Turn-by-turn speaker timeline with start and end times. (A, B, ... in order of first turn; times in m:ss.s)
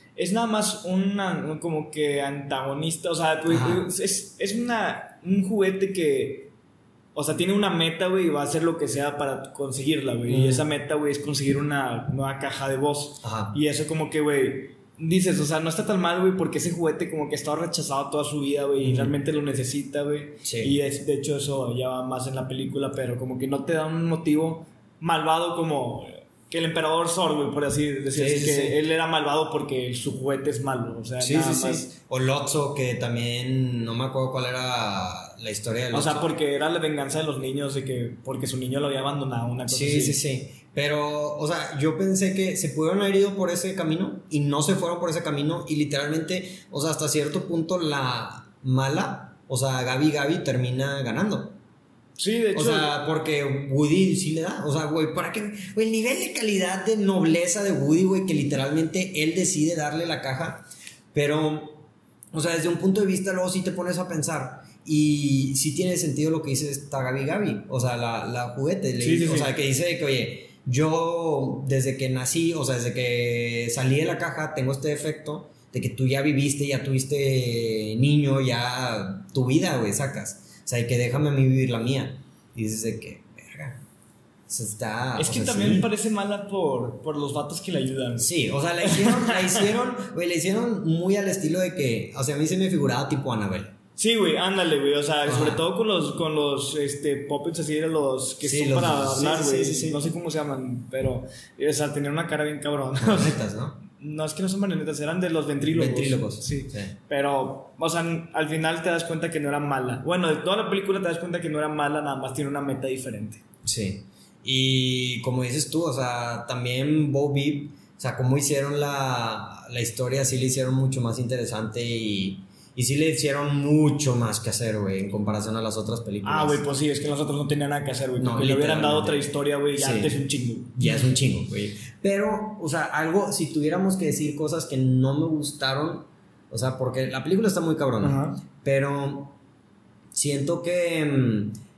0:00.2-0:06.5 A
0:03.5-0:03.9 B
0:07.1-0:31.9 A
0:10.3-0:10.6 B
0:13.2-0:13.6 B
0:18.8-0:19.2 B
0:20.4-0:20.8 B
0:28.1-0:28.8 B
0:31.2-0:36.3 B
0:35.9-0:40.2 A
0:39.7-0:51.6 B
0:52.2-0:52.9 A
0:52.5-1:23.8 B
1:09.0-1:09.5 A
1:24.5-1:25.9 B
1:25.2-1:28.3 A
1:28.2-1:33.7 B
1:28.8-1:29.7 A
1:34.0-1:53.4 A
1:35.2-1:35.6 B
1:38.4-1:40.0 B
1:43.0-1:43.8 B
1:45.7-1:47.0 B
1:53.6-2:06.6 B
2:06.2-2:11.1 A
2:08.2-2:10.2 B
2:10.8-2:19.4 B
2:18.0-2:18.4 A
2:20.1-2:21.6 B